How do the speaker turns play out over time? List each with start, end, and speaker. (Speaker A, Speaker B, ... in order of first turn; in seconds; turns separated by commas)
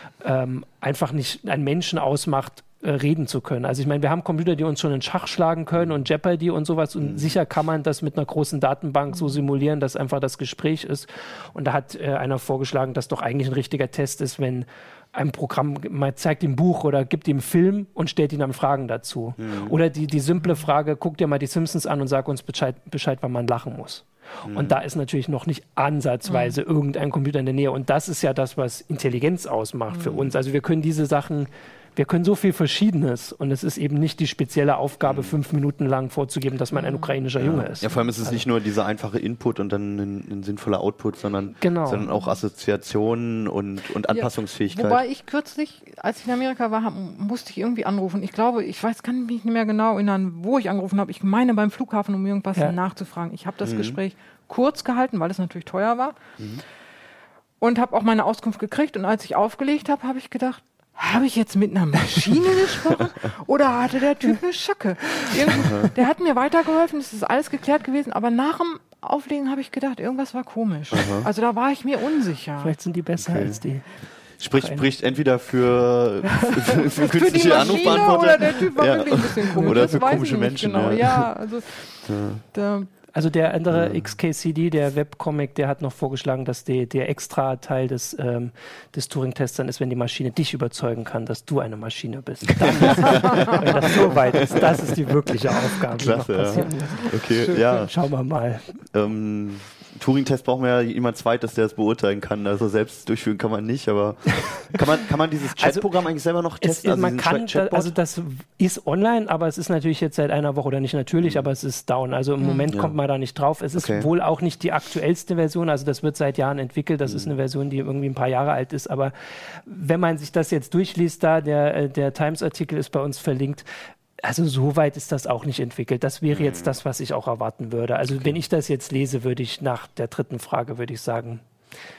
Speaker A: 0.2-38.5, Speaker B: 7.0-7.4, Speaker C: 9.1-9.4, Speaker B: 19.4-19.8, Speaker C: 20.4-20.7, Speaker B: 24.4-24.8, Speaker C: 26.3-26.6, Speaker C: 29.9-30.3, Speaker B: 35.0-35.4, Speaker C: 36.7-37.2, Speaker B: 37.4-45.0, Speaker A: 41.6-42.1, Speaker C: 42.1-42.4, Speaker C: 44.1-56.2, Speaker B: 53.6-54.0, Speaker B: 56.4-56.6, Speaker C: 57.6-72.8, Speaker B: 65.6-65.9, Speaker B: 70.9-71.3, Speaker A: 72.6-73.9, Speaker B: 73.2-73.6, Speaker B: 74.4-81.3, Speaker A: 74.5-74.9, Speaker C: 76.9-82.9, Speaker A: 79.5-80.0, Speaker B: 82.1-82.4, Speaker A: 83.1-98.8, Speaker B: 83.7-84.0, Speaker B: 92.5-94.9, Speaker B: 95.9-97.9, Speaker C: 96.5-97.8, Speaker B: 98.9-107.9, Speaker A: 105.6-105.9, Speaker A: 106.6-123.7, Speaker B: 111.2-111.5, Speaker C: 112.4-112.7, Speaker B: 113.7-114.1, Speaker B: 117.0-117.3, Speaker A: 124.2-131.4, Speaker B: 126.3-126.8, Speaker B: 128.1-128.4